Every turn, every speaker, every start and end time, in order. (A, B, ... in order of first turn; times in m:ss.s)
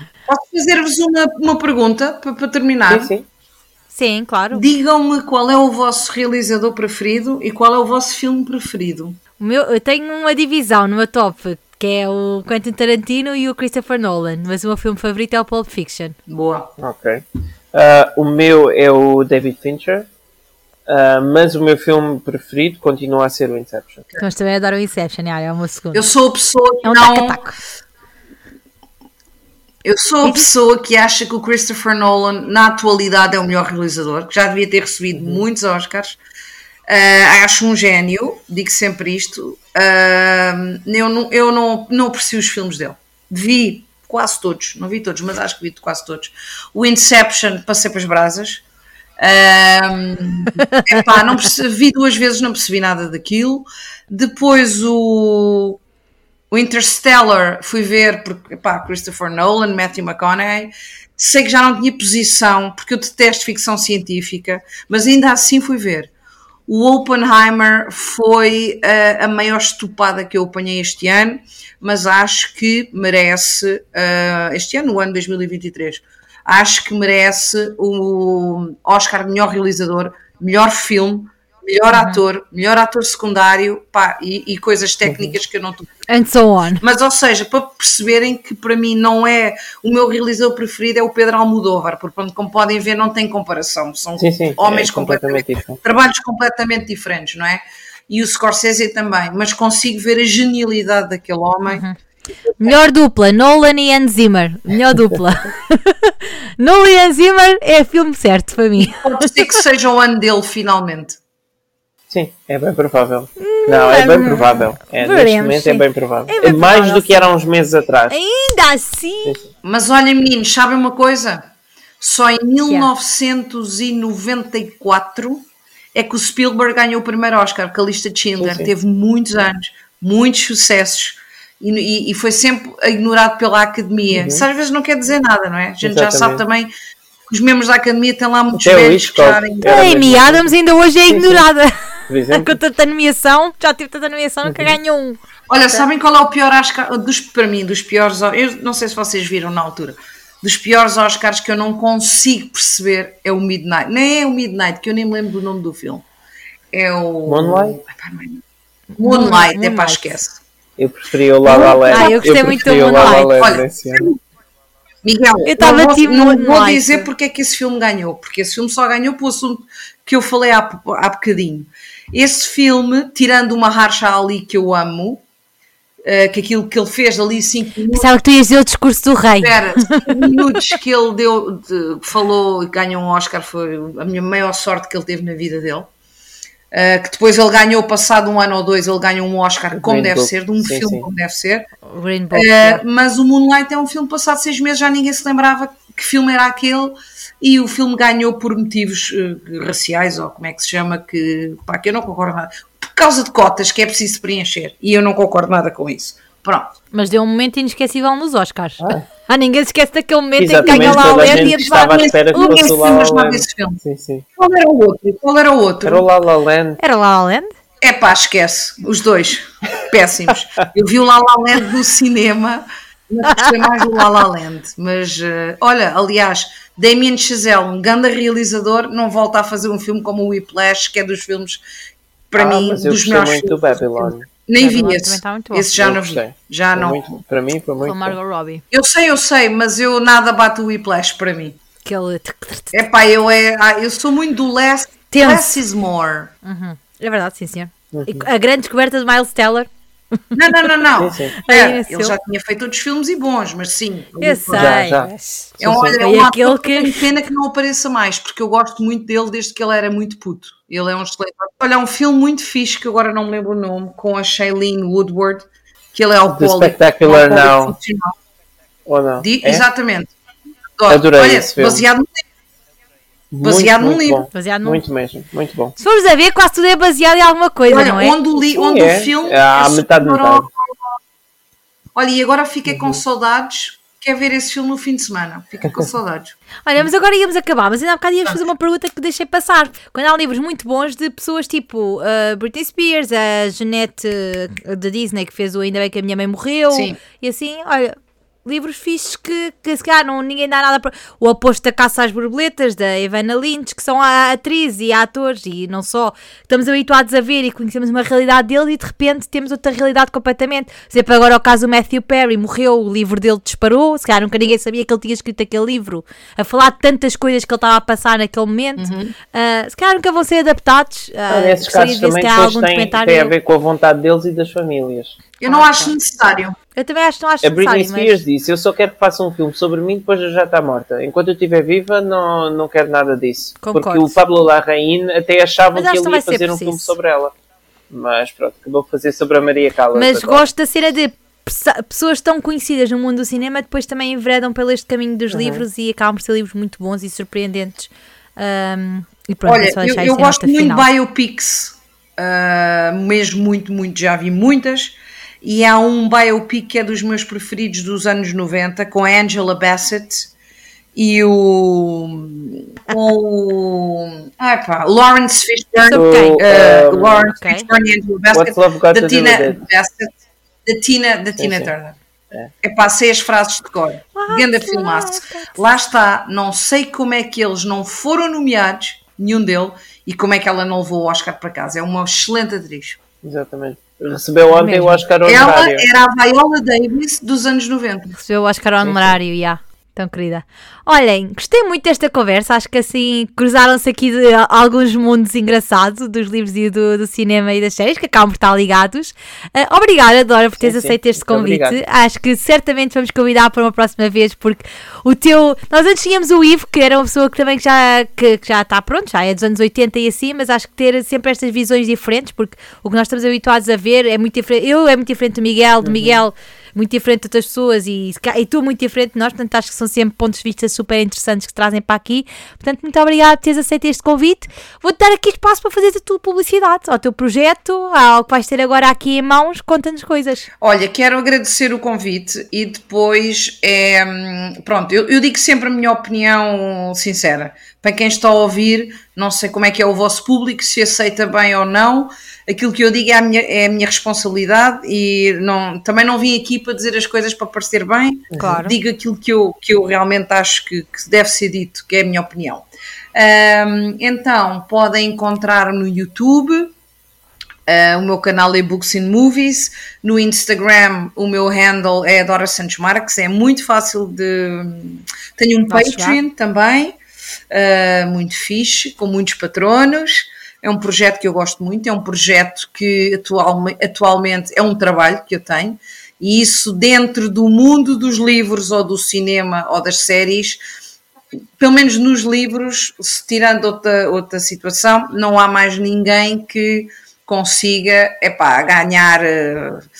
0:00.3-0:03.1 A
0:02.9-0:03.2 B
0:03.9-0:04.6 C
0:04.5-0:09.2 A
0:09.4-0:16.2 C
0:16.3-0:16.7 A
0:16.8-0:20.1 B
0:20.9-0:24.1 B
0:24.2-0:26.0 C
0:25.9-0:27.5 A
0:26.8-0:27.6 C
0:29.8-0:36.2 A
0:30.2-0:30.5 C
0:36.9-0:48.6 A
0:49.2-0:55.8 A
0:50.6-0:51.0 C
0:56.5-1:06.1 A
1:06.7-1:26.0 A
1:21.9-1:22.2 C
1:25.0-1:25.3 B
1:26.1-1:26.8 C
1:26.8-1:41.8 A
1:34.2-1:35.8 B
1:41.7-1:42.0 C
1:42.6-1:49.6 C
1:48.8-1:51.2 A
1:52.1-1:58.2 B
1:53.4-1:57.3 C
1:58.1-1:59.4 C
1:59.6-2:01.4 A
2:02.0-2:16.7 A
2:08.4-2:08.7 B
2:14.1-2:14.4 B
2:15.8-2:16.4 B
2:17.3-2:19.9 A
2:18.6-2:20.5 B
2:19.6-2:21.7 C
2:21.1-2:21.4 B
2:22.1-2:22.6 B
2:22.3-2:25.2 C
2:24.4-2:24.8 B
2:25.5-2:36.0 A
2:36.7-2:38.4 A
2:37.3-2:37.8 B
2:38.9-2:40.1 C
2:39.0-2:40.4 A
2:40.8-2:44.1 B
2:41.4-2:44.2 A
2:41.9-2:43.6 C
2:45.0-2:55.2 A
2:45.4-2:47.1 C
2:56.0-2:58.1 A
2:57.9-3:00.7 C
2:59.4-3:05.9 A
3:06.7-3:11.7 A
3:09.8-3:11.0 B
3:11.8-3:12.8 C
3:12.3-3:26.7 A
3:26.9-3:32.6 C
3:28.8-3:29.0 B
3:30.4-3:34.2 B
3:30.7-3:33.8 A
3:34.4-3:36.1 A
3:35.8-3:36.8 B
3:36.8-3:37.5 C
3:37.8-3:51.6 A
3:52.3-3:57.2 A
3:52.4-3:54.3 B
3:54.6-3:55.7 C
3:55.8-3:58.2 B
3:57.8-3:58.6 C
3:58.7-4:01.6 A
4:01.8-4:02.8 C
4:02.7-4:06.3 A
4:05.1-4:05.6 C
4:06.4-4:09.7 C
4:07.9-4:08.3 B
4:10.3-4:14.8 A
4:11.0-4:11.4 B
4:11.4-4:12.2 C
4:14.2-4:17.0 C
4:14.5-4:16.0 B
4:15.6-4:28.2 A
4:26.4-4:27.7 B
4:28.8-4:29.6 B
4:29.2-4:30.1 A
4:30.8-4:32.1 A
4:30.9-4:31.8 B
4:33.3-4:35.7 B
4:33.4-4:34.2 A
4:34.3-4:34.8 C
4:35.8-4:38.2 C
4:37.6-4:40.5 A
4:38.5-4:40.4 B
4:41.9-4:46.3 A
4:42.7-4:43.0 B
4:46.6-5:23.3 C
4:56.7-4:57.0 A
5:18.8-5:19.1 A
5:21.3-5:25.2 B
5:25.4-5:26.5 A
5:25.4-5:25.9 C
5:26.7-5:28.2 C
5:27.4-5:37.3 B
5:33.6-5:34.2 C
5:35.7-5:37.0 C
5:37.9-5:40.5 B
5:39.9-5:50.9 C
5:45.3-5:45.6 B
5:49.4-6:00.3 A
6:00.9-6:10.1 A
6:05.8-6:06.4 C
6:05.9-6:07.3 B
6:07.3-6:07.7 C
6:08.3-6:09.6 B
6:10.6-6:12.0 A
6:11.4-6:11.7 B
6:12.6-6:23.0 A
6:14.1-6:15.6 C
6:23.2-6:25.9 B
6:24.5-6:25.0 C
6:25.2-6:28.2 A
6:28.1-7:10.5 C
6:28.8-6:29.1 B
6:40.6-6:41.8 B
6:55.8-6:56.2 B
7:10.6-7:36.7 A
7:28.3-7:28.6 B
7:28.4-7:28.7 C
7:37.7-7:46.9 A
7:45.7-7:46.2 C
7:47.5-8:00.6 A
8:01.6-8:09.8 A